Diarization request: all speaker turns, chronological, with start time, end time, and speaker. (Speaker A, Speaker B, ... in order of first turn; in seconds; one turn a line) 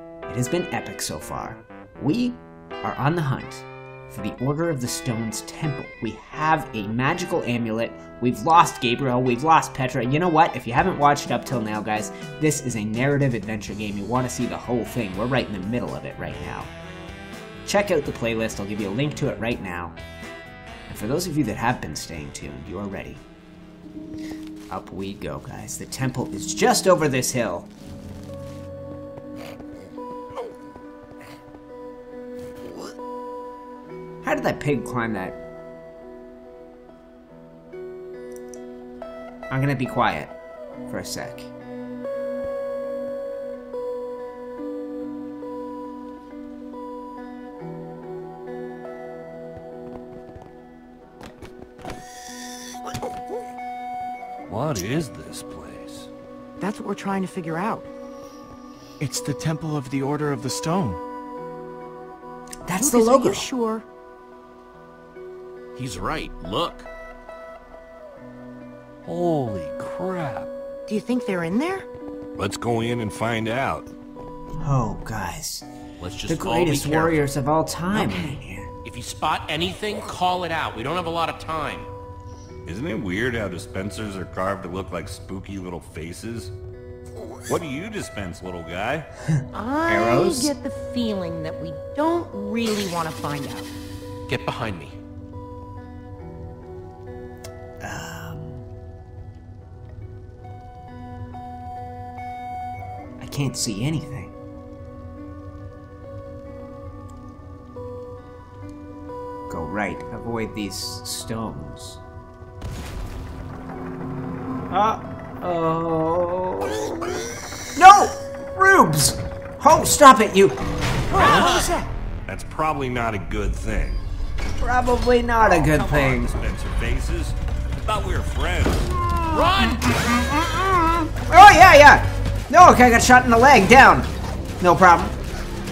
Speaker A: 0.3-16.7
Speaker A: 17.6-20.0
Speaker A: 20.9-23.2
Speaker A: 24.7-27.7
Speaker A: 34.2-35.4
Speaker A: 39.5-40.3
Speaker A: 40.9-41.5
Speaker B: 54.5-56.1
Speaker C: 56.6-57.9
Speaker D: 59.0-61.0
Speaker A: 62.6-63.5
Speaker C: 62.8-63.8
Speaker E: 65.8-66.9
Speaker B: 69.0-70.5
Speaker C: 70.9-71.8
Speaker B: 72.4-73.9
Speaker A: 74.6-75.6
Speaker E: 76.0-77.2
Speaker A: 76.3-78.7
Speaker C: 78.0-78.4
Speaker E: 78.8-81.9
Speaker B: 82.7-86.5
Speaker B: 87.5-89.1
Speaker A: 89.4-90.5
Speaker C: 89.5-93.7
Speaker E: 94.3-95.0
Speaker A: 97.8-98.6
Speaker A: 103.2-104.3
Speaker A: 109.5-112.0
Speaker A: 114.7-116.9
Speaker A: 117.8-120.6
Speaker D: 121.1-121.9
Speaker B: 121.2-121.5
Speaker E: 121.2-121.7
Speaker B: 122.3-124.0
Speaker A: 124.6-126.3
Speaker B: 125.4-128.9
Speaker A: 129.0-134.1
Speaker E: 129.3-129.8
Speaker A: 134.6-135.2